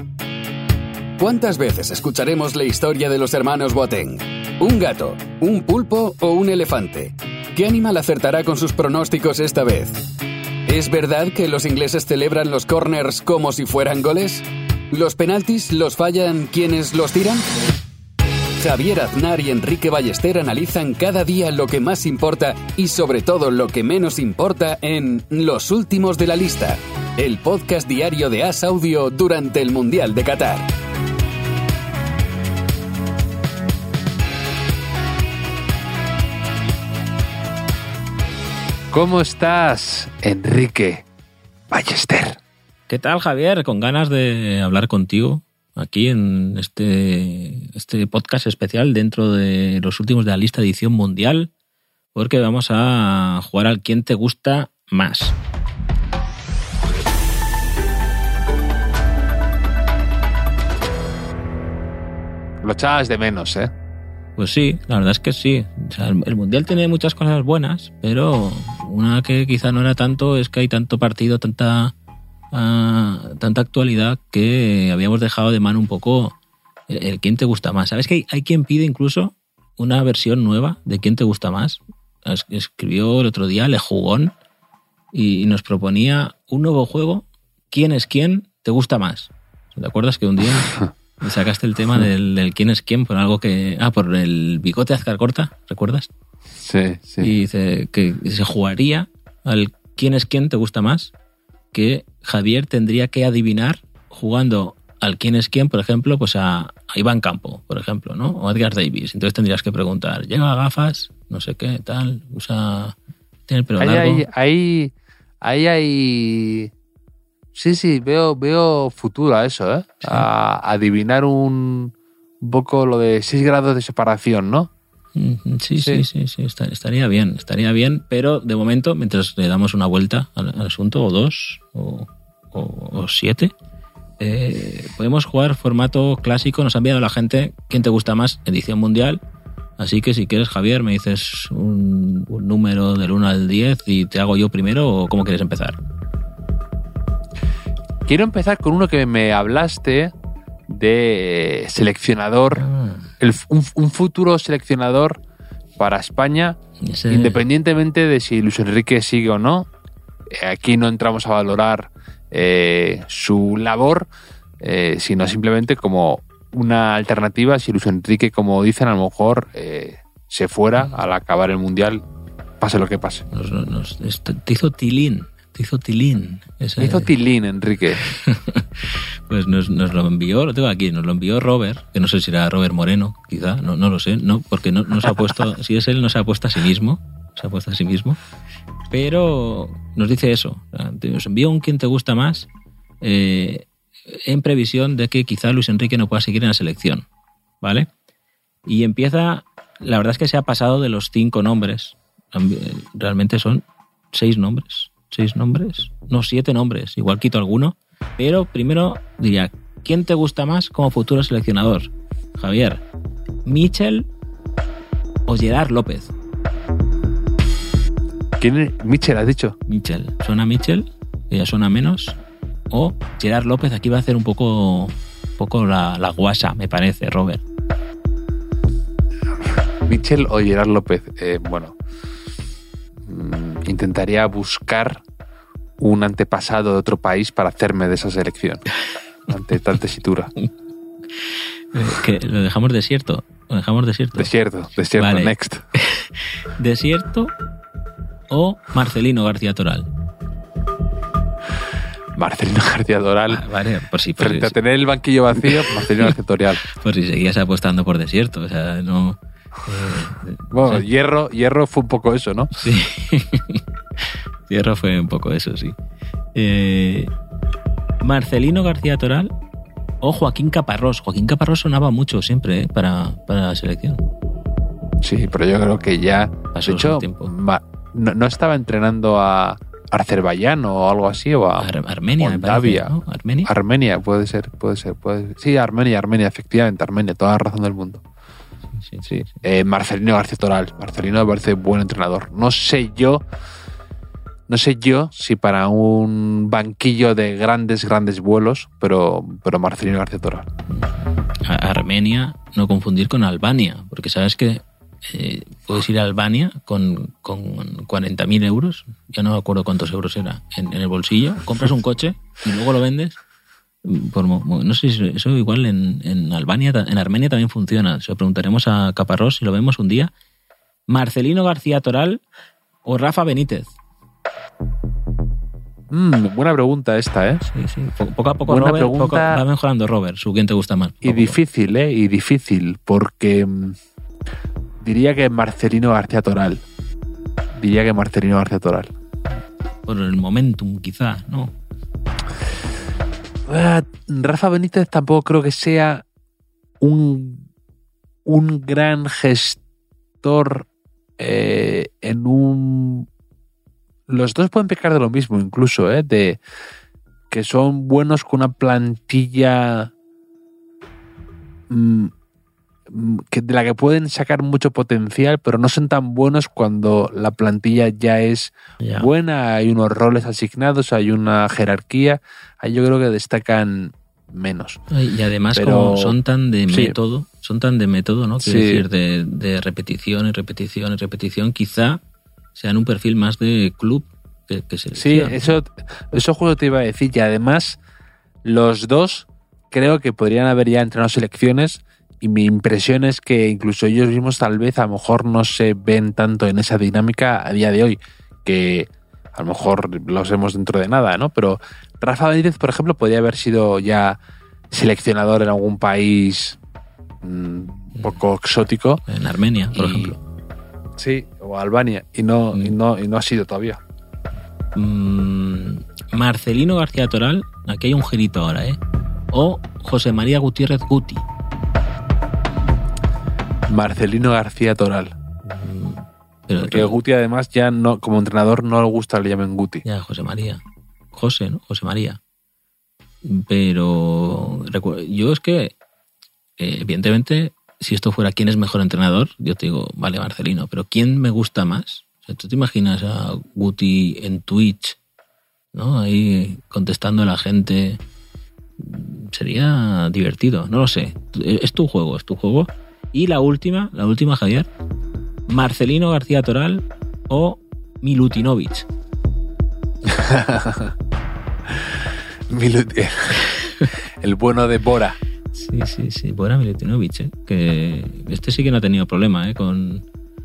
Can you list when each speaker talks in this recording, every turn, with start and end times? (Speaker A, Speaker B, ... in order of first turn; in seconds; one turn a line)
Speaker A: 1.2-10.0
Speaker A: 10.7-17.5
Speaker A: 18.6-30.7
Speaker B: 38.9-41.0
Speaker B: 41.7-42.4
Speaker C: 42.9-51.5
Speaker C: 52.1-55.4
Speaker B: 62.6-63.7
Speaker C: 64.4-71.9
Speaker C: 72.5-76.3
Speaker C: 76.9-84.3
Speaker C: 85.1-96.1
Speaker B: 96.6-97.3
Speaker C: 97.2-101.1
Speaker C: 101.7-112.9
Speaker C: 113.5-114.2
Speaker B: 113.8-116.7
Speaker B: 117.5-124.7
Speaker C: 125.1-133.5
Speaker B: 125.8-126.0
Speaker C: 134.2-139.2
Speaker C: 139.8-145.8
Speaker B: 148.1-150.1
Speaker B: 150.7-152.7
Speaker C: 152.5-153.1
Speaker B: 153.2-155.2
Speaker B: 155.8-156.6
Speaker C: 156.8-157.4
Speaker B: 157.1-159.7
Speaker B: 160.3-164.1
Speaker B: 164.6-172.0
Speaker B: 172.6-173.2
Speaker C: 173.3-177.1
Speaker B: 176.8-178.0
Speaker C: 178.0-188.2
Speaker C: 188.9-192.5
Speaker C: 193.0-197.1
Speaker C: 197.6-197.9
Speaker C: 198.7-212.8
Speaker C: 213.4-214.1
Speaker C: 215.2-216.1
Speaker B: 218.4-219.6
Speaker C: 219.7-222.2
Speaker C: 222.7-227.4
Speaker B: 229.8-231.8
Speaker B: 233.0-235.0
Speaker B: 235.8-238.6
Speaker B: 239.3-240.3
Speaker C: 241.2-244.3
Speaker B: 244.1-245.6
Speaker C: 244.9-247.3
Speaker C: 248.3-249.9
Speaker B: 252.1-253.4
Speaker C: 253.3-254.6
Speaker B: 254.2-256.6
Speaker C: 256.6-260.8
Speaker B: 260.5-262.5
Speaker C: 262.5-265.8
Speaker C: 266.3-267.1
Speaker C: 268.0-269.3
Speaker C: 270.0-274.0
Speaker B: 275.0-288.0
Speaker C: 276.5-277.3
Speaker C: 281.6-283.5
Speaker C: 288.7-289.4
Speaker B: 289.1-293.2
Speaker B: 294.5-300.5
Speaker C: 300.7-313.2
Speaker C: 313.8-320.1
Speaker C: 320.9-322.2
Speaker C: 322.8-323.7
Speaker B: 325.9-327.4
Speaker C: 327.5-331.4
Speaker B: 328.5-329.4
Speaker B: 331.0-333.8
Speaker B: 334.8-336.6
Speaker B: 337.5-338.9
Speaker C: 339.9-341.5
Speaker B: 343.5-346.0
Speaker B: 346.8-347.4
Speaker B: 348.2-349.6
Speaker B: 350.2-350.7
Speaker B: 351.2-353.1
Speaker B: 354.1-356.4
Speaker B: 357.3-359.9
Speaker B: 361.7-362.1
Speaker B: 362.9-374.8
Speaker C: 368.8-369.1
Speaker C: 374.9-382.0
Speaker B: 375.5-376.1
Speaker B: 376.7-376.9
Speaker B: 378.4-378.8
Speaker C: 382.5-385.5
Speaker B: 384.9-387.8
Speaker B: 388.4-404.2
Speaker B: 404.7-406.6
Speaker B: 407.2-409.0
Speaker C: 409.1-410.2
Speaker B: 409.7-410.1
Speaker B: 410.9-413.8
Speaker C: 414.7-418.8
Speaker C: 419.3-421.2
Speaker B: 423.7-425.1
Speaker C: 425.4-426.9
Speaker B: 426.5-429.8
Speaker C: 429.8-430.6
Speaker C: 431.1-432.2
Speaker C: 433.2-435.7
Speaker C: 436.6-445.0
Speaker C: 445.7-448.0
Speaker C: 448.8-454.7
Speaker C: 455.5-458.9
Speaker B: 460.0-460.9
Speaker B: 461.7-465.2
Speaker C: 465.5-470.0